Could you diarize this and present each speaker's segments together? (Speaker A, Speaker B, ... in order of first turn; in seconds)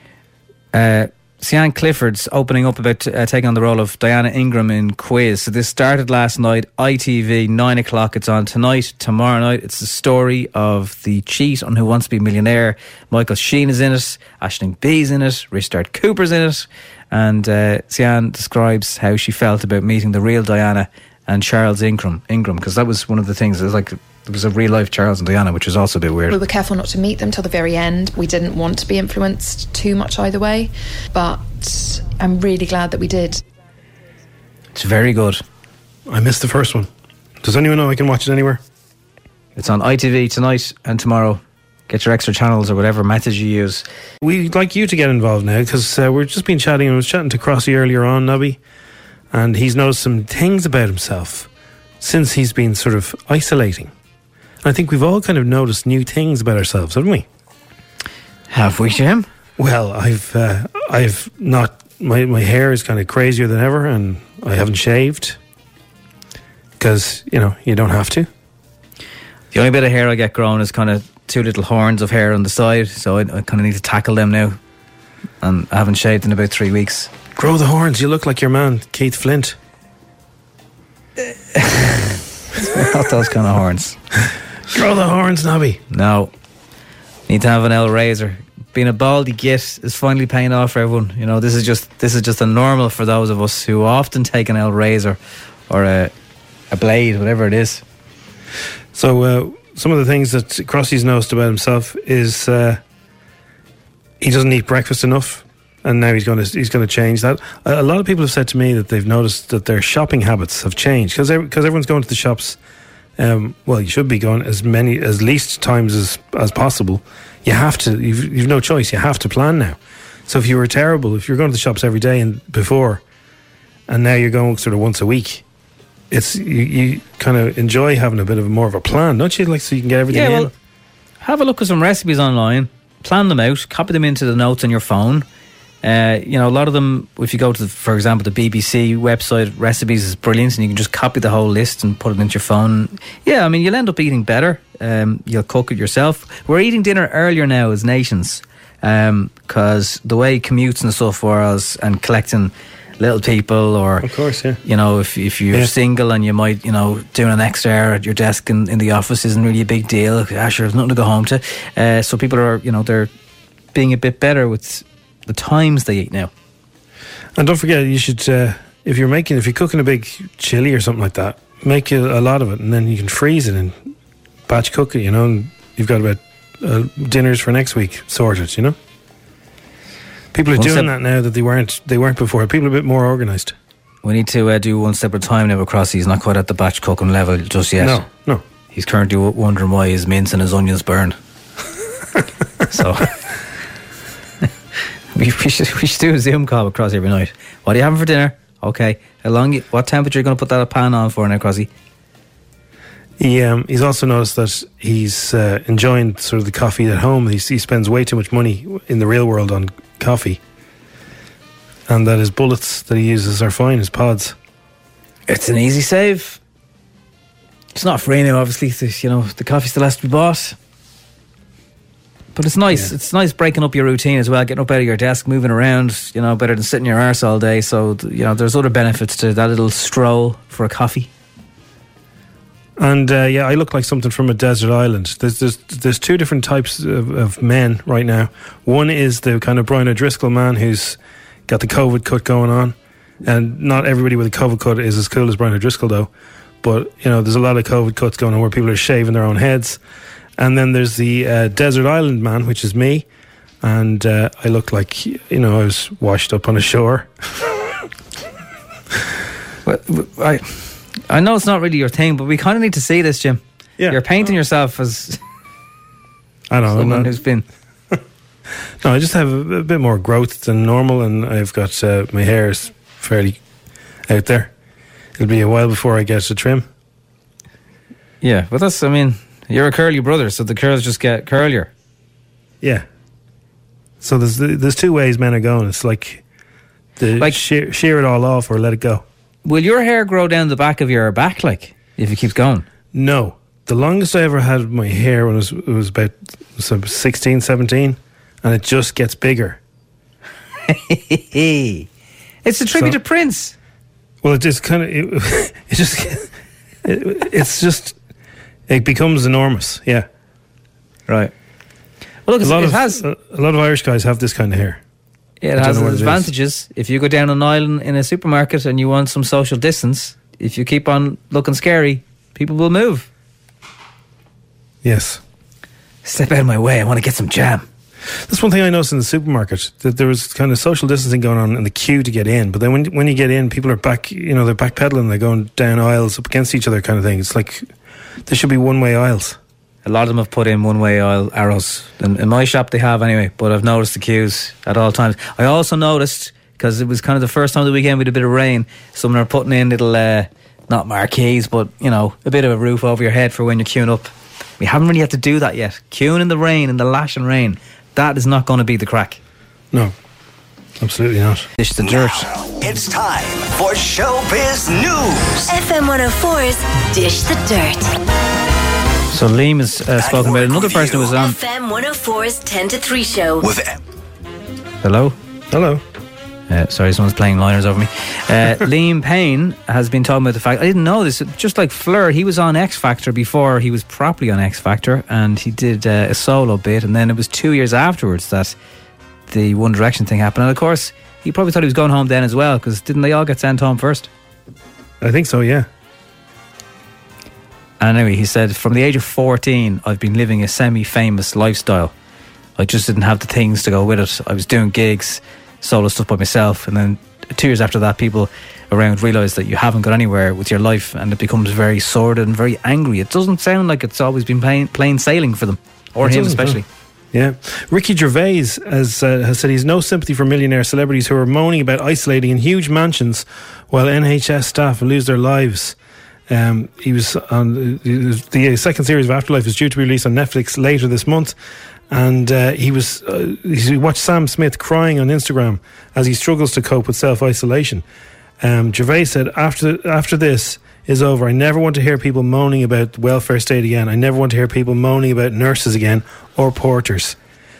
Speaker A: 0.7-26.4, 34.8-35.4, 39.6-43.8, 58.5-59.3, 69.5-74.6, 75.4-77.1, 81.2-84.0, 85.9-86.3, 87.3-96.1, 96.7-97.8, 130.1-130.5, 131.2-135.2, 135.8-154.1, 154.6-163.1, 163.7-166.3, 180.6-180.9, 184.0-188.1, 188.7-191.2, 192.7-193.2, 195.1-201.7, 215.3-216.4, 217.8-220.6, 222.3-231.1, 259.7-265.2, 266.7-267.4, 278.2-281.7, 289.4-292.7, 300.7-301.9, 302.4-303.6, 312.3-313.0, 315.4-323.1, 326.1-327.6, 339.9-359.2, 361.6-362.3, 369.1-371.4, 374.8-375.1, 376.5-388.6, 389.3-394.1, 397.8-401.9, 402.6-416.6
Speaker B: 26.3-33.4
Speaker C: 36.1-36.9, 37.4-38.6, 44.2-48.6, 49.3-51.5, 52.0-53.9, 54.6-57.3, 59.6-65.4, 66.8-68.3, 77.4-79.6, 84.7-85.8, 98.9-102.8, 104.2-112.6, 113.2-123.0, 123.9-125.4, 126.1-130.5, 154.0-154.6, 167.4-173.9, 174.5-178.8, 180.3-183.6, 187.8-188.4, 203.2-210.4, 211.9-214.3, 232.8-246.1, 246.6-249.8, 250.4-253.1, 253.6-257.6, 266.5-267.2, 268.8-273.4, 274.1-274.5, 275.2-276.7, 284.0-286.2, 287.0-289.0, 292.9-299.6, 304.2-306.3, 306.9-308.0, 308.7-310.1, 312.4-314.8, 315.6-316.3, 324.8-325.2, 328.3-337.7, 338.3-339.4, 360.8-361.5, 375.5-375.8, 395.0-395.7, 416.0-416.6, 417.1-425.8, 426.3-431.4, 431.9-437.8, 438.4-447.2
Speaker D: 361.8-365.5, 370.0-371.2, 373.4-373.8
Speaker E: 365.5-367.9, 371.1-373.4